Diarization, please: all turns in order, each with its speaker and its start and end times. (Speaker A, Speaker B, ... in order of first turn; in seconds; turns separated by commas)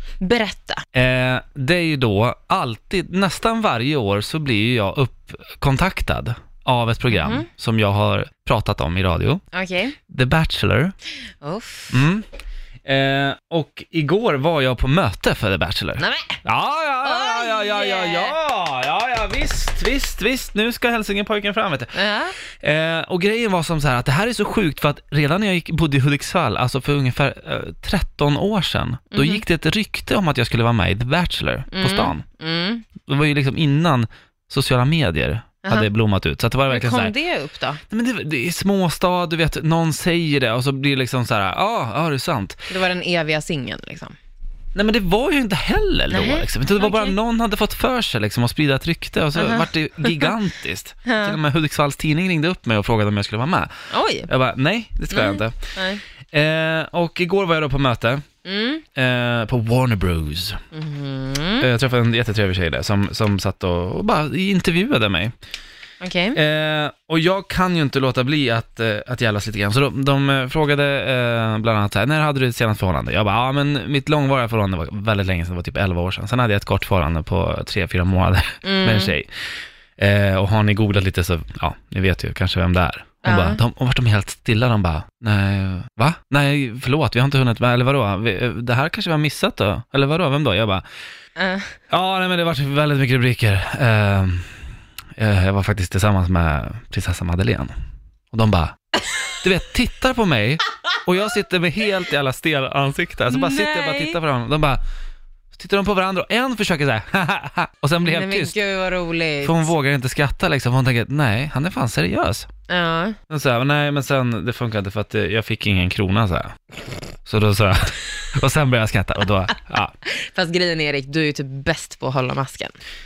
Speaker A: 0.2-0.8, Speaker B: 0.9-9.4, Speaker A: 7.1-7.5, Speaker A: 9.5-10.0, Speaker B: 10.1-10.9, Speaker A: 11.4-12.0, Speaker B: 11.9-12.3, Speaker B: 12.8-22.0, Speaker A: 16.0-16.4, Speaker A: 17.0-18.4, Speaker A: 21.9-22.4, Speaker B: 22.6-32.2, Speaker A: 29.1-29.4, Speaker A: 31.7-32.9, Speaker B: 33.1-37.1, Speaker A: 35.6-35.9, Speaker A: 36.7-37.8, Speaker B: 37.9-42.7, Speaker A: 42.7-44.2, Speaker B: 44.8-55.6, Speaker A: 46.1-47.2, Speaker A: 49.4-50.3, Speaker A: 51.1-51.4, Speaker A: 53.9-54.3, Speaker A: 55.1-56.0, Speaker B: 56.3-58.3, Speaker A: 58.5-58.8, Speaker B: 59.0-60.6, Speaker A: 60.7-61.7, Speaker B: 61.6-65.3, Speaker A: 66.0-66.4, Speaker B: 66.3-79.3, Speaker A: 78.6-79.1, Speaker B: 80.0-90.8, Speaker A: 83.2-83.6, Speaker A: 91.4-91.8, Speaker B: 91.9-94.5, Speaker B: 95.2-97.7, Speaker B: 98.3-98.8, Speaker B: 99.4-104.8, Speaker A: 103.3-104.2, Speaker B: 105.5-108.6, Speaker A: 108.0-109.7, Speaker B: 109.4-112.5, Speaker A: 112.7-113.2, Speaker B: 113.3-116.5, Speaker B: 117.2-119.9, Speaker A: 120.0-122.8